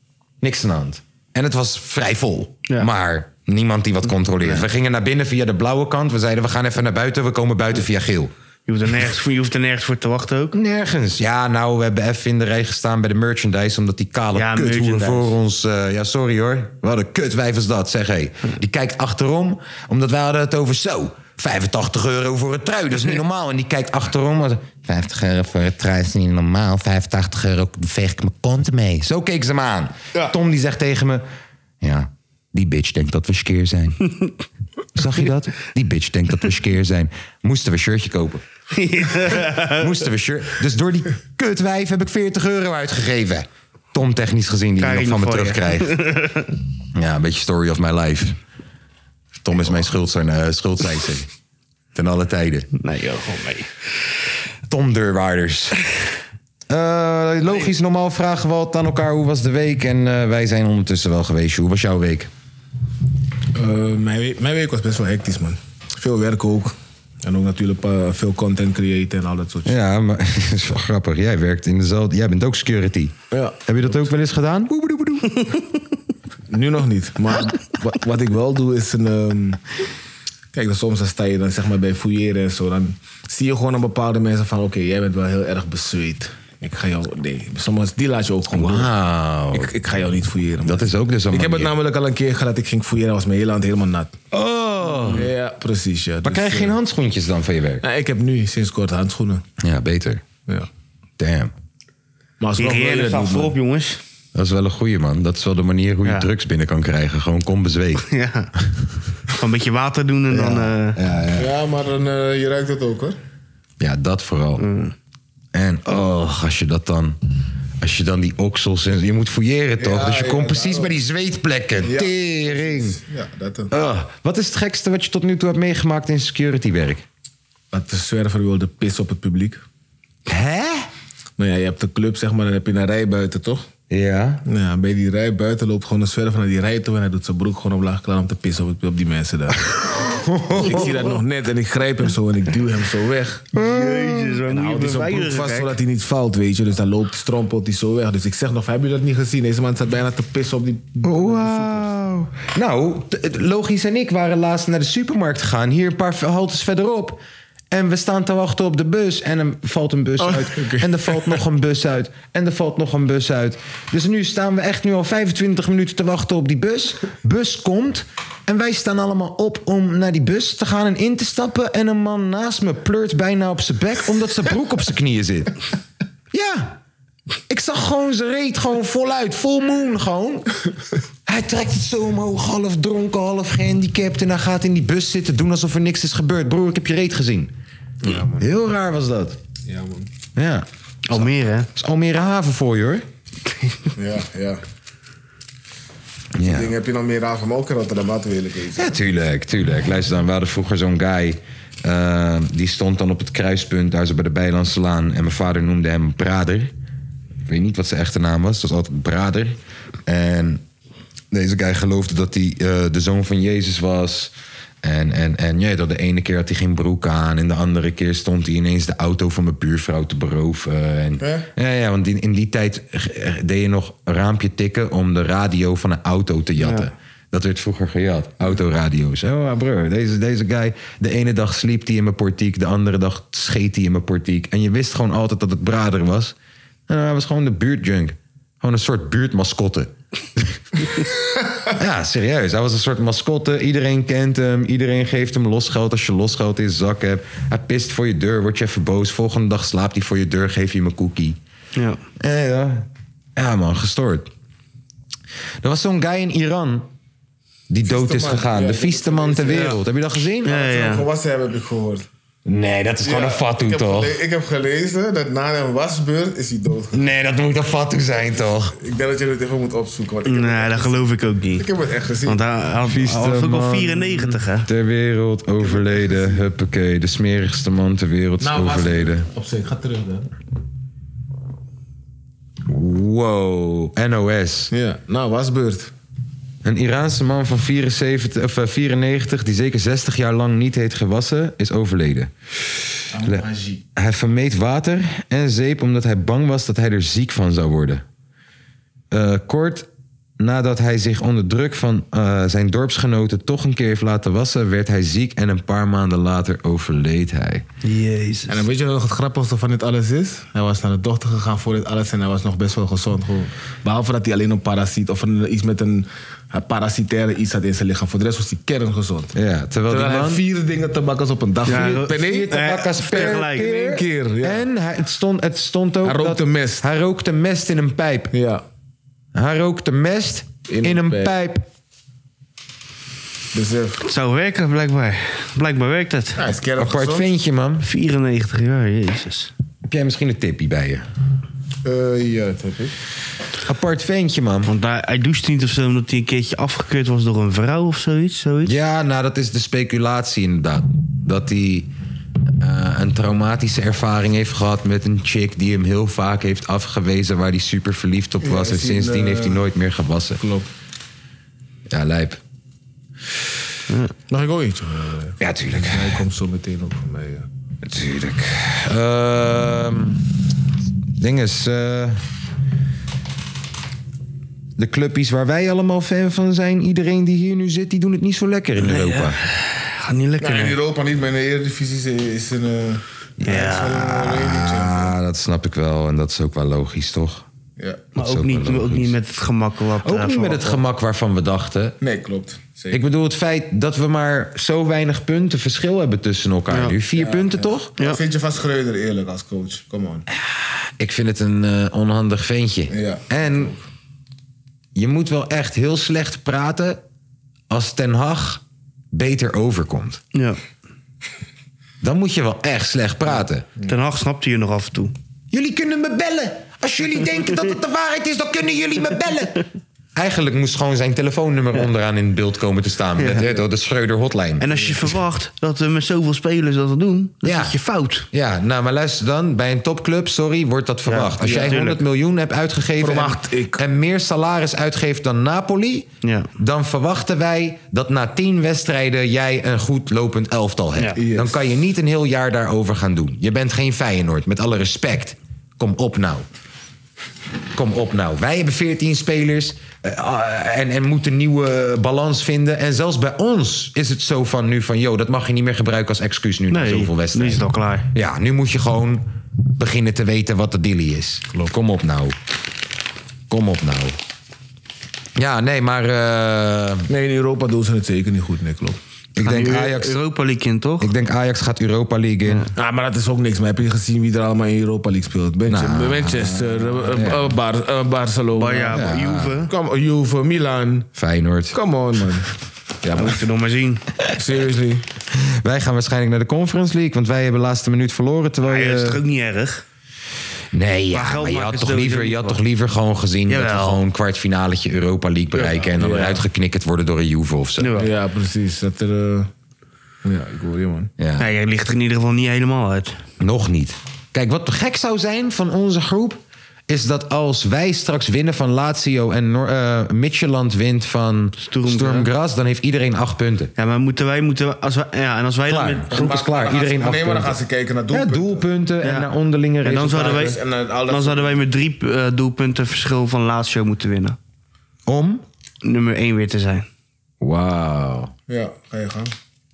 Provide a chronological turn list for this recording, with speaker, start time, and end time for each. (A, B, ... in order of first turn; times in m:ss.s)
0:00.4-0:08.3 A
0:08.7-0:10.5 B
0:10.5-0:31.2 A
0:14.3-0:15.3 B
0:31.8-0:34.0 A
0:34.9-0:38.4 A
0:38.7-0:39.9 B
0:39.2-0:46.0 A
0:44.8-0:46.5 B
0:46.9-0:48.4 A
0:49.4-0:51.3 A
0:51.9-0:52.7 A
0:52.8-0:53.7 B
0:54.7-0:55.8 A
0:56.7-1:02.3 A
1:03.5-1:09.7 C
1:09.6-1:15.6 A
1:13.3-1:14.0 C
1:16.5-1:19.6 C
1:20.5-1:28.9 C
1:28.5-1:29.7 A
1:29.5-1:34.2 C
1:30.6-1:31.7 A
1:34.3-1:35.3 A
1:35.1-1:36.8 C
1:36.2-1:37.8 A
1:37.8-1:39.4 C
1:39.6-1:40.2 A
1:41.2-1:41.5 A
1:42.4-1:43.6 C
1:42.6-1:44.0 B
1:44.3-1:48.8 A
1:46.0-1:46.3 B
1:48.0-1:48.5 B
1:49.3-1:51.0 B
1:50.3-1:51.5 A
1:51.3-1:53.2 C
1:53.8-1:54.6 A
1:54.6-1:54.9 B
1:55.5-1:57.2 A
1:57.8-2:03.0 A
1:59.8-2:00.9 C
2:01.8-2:03.7 C
2:03.7-2:07.0 A
2:07.7-2:09.6 C
2:10.3-2:10.9 A
2:11.4-2:13.6 C
2:13.9-2:14.4 A
2:14.4-2:19.7 C
2:19.8-2:21.1 A
2:20.5-2:23.5 C
2:23.5-2:24.4 A
2:23.6-2:25.7 B
2:24.5-2:31.9 C
2:31.0-2:37.2 A
2:37.7-2:55.6 A
2:40.2-2:41.4 C
2:56.3-2:56.8 A
2:57.5-3:00.5 A
3:01.2-3:07.5 A
3:08.0-3:08.4 C
3:08.4-3:09.4 A
3:09.6-3:10.1 C
3:10.4-3:13.0 A
3:11.1-3:11.7 B
3:14.0-3:14.6 C
3:16.4-3:16.7 A
3:16.4-3:19.0 C
3:18.8-3:26.7 A
3:27.4-3:30.6 A
3:31.3-3:56.3 A
3:41.2-3:41.5 C
3:46.6-3:46.9 B
3:56.9-4:11.4 A
4:11.8-4:12.0 B
4:12.2-4:14.3 A
4:15.6-4:16.9 A
4:17.7-4:20.6 A
4:17.8-4:19.8 C
4:20.4-4:21.0 B
4:20.4-4:22.0 C
4:22.4-4:24.2 A
4:23.0-4:27.0 C
4:26.9-4:28.7 A
4:28.7-4:32.4 C
4:30.2-4:31.7 B
4:32.2-4:34.7 B
4:32.8-4:39.3 A
4:35.6-4:36.4 C
4:38.4-4:40.3 C
4:42.7-4:44.7 A
4:44.7-4:45.9 C
4:46.6-4:53.4 A
4:53.1-4:53.8 C
4:53.9-4:58.0 A
4:59.1-4:59.9 A
5:00.4-5:07.6 A
5:07.8-5:08.6 B
5:08.5-5:19.3 C
5:19.3-5:20.4 A
5:19.9-5:24.6 C
5:21.6-5:23.7 B
5:22.0-5:28.3 A
5:26.0-5:26.8 C
5:28.3-5:28.6 C
5:29.3-5:31.6 A
5:30.7-5:31.4 C
5:33.5-5:34.0 C
5:34.0-5:36.4 B
5:36.4-5:37.3 C
5:36.8-5:37.8 A
5:37.8-5:39.5 B
5:39.8-5:41.1 A
5:41.8-5:42.9 C
5:43.6-5:44.7 A
5:44.6-5:48.7 B
5:48.6-5:51.9 A
5:52.6-6:00.4 A
5:58.4-5:59.6 C
6:00.4-6:00.7 C
6:01.9-6:02.4 A
6:03.9-6:04.1 B
6:04.3-6:07.5 C
6:05.4-6:06.2 A
6:07.8-6:10.3 A
6:11.2-6:12.2 A
6:14.8-6:19.4 A
6:18.8-6:20.8 B
6:20.4-6:25.1 C
6:23.4-6:27.4 A
6:23.4-6:24.0 B
6:27.8-6:28.0 C
6:28.2-6:30.8 B
6:28.2-6:29.1 A
6:30.0-6:32.0 A
6:32.0-6:33.0 C
6:32.9-6:37.9 A
6:36.7-6:37.0 B
6:37.1-6:40.3 C
6:40.4-6:43.7 A
6:42.9-6:43.8 C
6:44.9-6:47.0 A
6:47.7-6:50.2 A
6:52.0-6:53.7 A
6:53.8-6:55.1 B
6:55.5-6:59.6 A
7:00.2-7:04.7 A
7:03.2-7:03.4 B
7:04.6-7:08.3 B
7:07.4-7:07.7 A
7:08.3-7:26.4 A
7:11.0-7:12.0 B
7:11.4-7:11.8 C
7:13.0-7:13.8 C
7:16.2-7:16.5 B
7:21.2-7:21.6 C
7:27.7-7:39.2 A
7:36.7-7:38.1 B
7:39.8-7:42.4 A
7:43.5-7:44.2 A
7:45.4-7:47.1 A
7:47.1-7:49.0 C
7:49.4-7:50.2 A
7:49.4-7:51.1 B
7:51.0-7:52.7 A
7:52.7-7:59.0 C
7:55.7-7:57.5 A
7:58.6-7:59.7 B
7:58.9-7:59.6 A
7:59.7-8:01.1 C
8:01.2-8:01.8 A
8:01.7-8:02.5 C
8:03.0-8:03.4 C
8:03.2-8:04.0 B
8:04.3-8:05.0 C
8:05.3-8:09.2 A
8:08.6-8:09.8 B
8:10.7-8:18.0 A
8:11.1-8:12.6 B
8:13.5-8:14.0 B
8:15.5-8:16.4 C
8:17.8-8:18.1 B
8:18.0-8:19.5 C
8:20.2-8:21.1 C
8:21.2-8:21.5 A
8:21.4-8:23.2 B
8:23.4-8:33.7 A
8:31.6-8:32.3 B
8:33.8-8:36.3 B
8:35.7-8:37.6 A
8:36.1-8:38.6 C
8:38.1-8:40.4 A
8:39.0-8:39.3 B
8:39.8-8:44.4 B
8:40.1-8:41.6 C
8:45.1-8:45.4 A
8:45.8-8:46.9 B
8:47.4-8:48.3 A
8:48.5-8:49.3 C